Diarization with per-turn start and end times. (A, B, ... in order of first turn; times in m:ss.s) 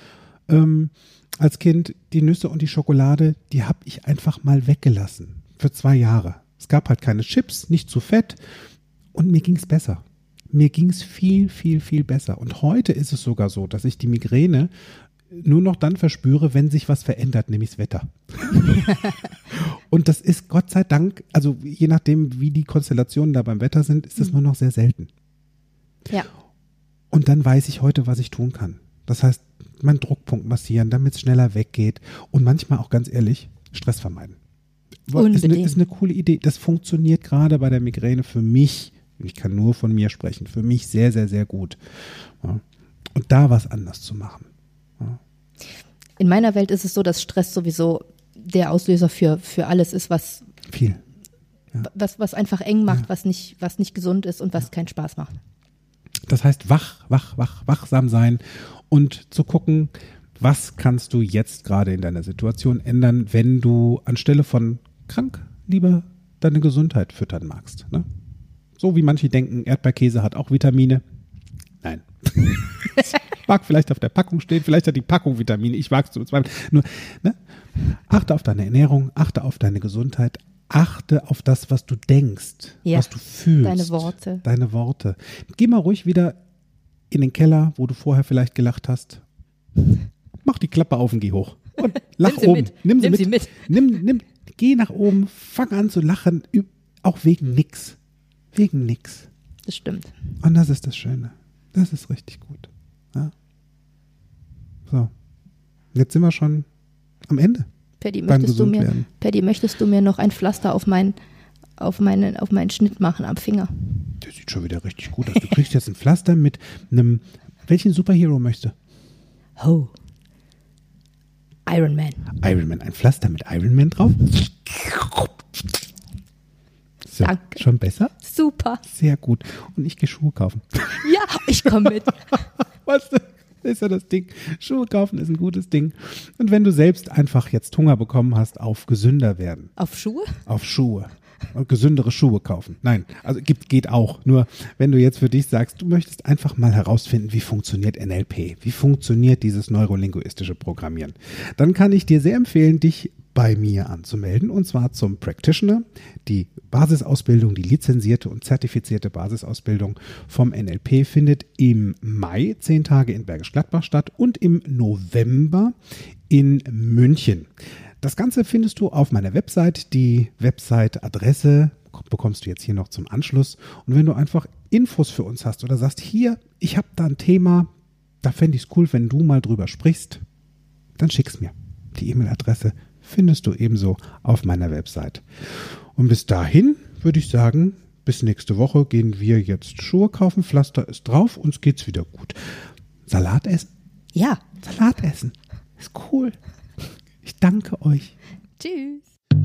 0:00.5-0:08.4 A
0:09.1-0:14.7 A
0:15.3-0:25.1 A
0:27.1-0:34.4 A
0:35.1-0:42.6 A
0:35.1-0:35.8 B
0:43.1-0:44.5 A
0:46.2-0:50.5 B
0:50.7-0:51.0 A
0:51.8-0:55.3 B
0:56.3-1:08.1 A
1:08.8-1:11.0 A
1:11.8-1:26.4 A
1:23.6-1:24.4 B
1:27.1-1:29.2 A
1:30.4-1:38.0 A
1:32.0-1:33.7 B
1:38.5-1:39.3 A
1:39.7-1:40.1 B
1:40.4-1:43.3 A
1:45.9-1:46.7 A
1:47.3-1:47.7 A
1:48.0-1:51.2 B
1:48.3-1:49.1 A
1:51.8-1:53.9 B
1:54.2-1:58.7 A
1:59.6-1:59.9 B
2:01.7-2:02.4 B
2:02.4-2:05.6 A
2:07.1-2:08.1 A
2:07.2-2:07.6 B
2:08.2-2:08.8 B
2:08.8-2:11.1 A
2:11.0-2:12.4 B
2:12.8-2:19.7 A
2:19.8-2:20.4 B
2:20.5-2:45.8 A
2:46.3-2:57.7 A
2:58.2-3:00.2 A
3:01.0-3:12.5 A
3:13.1-3:13.7 A
3:14.2-3:14.4 B
3:14.6-3:16.4 A
3:17.2-3:18.1 A
3:18.6-3:19.0 B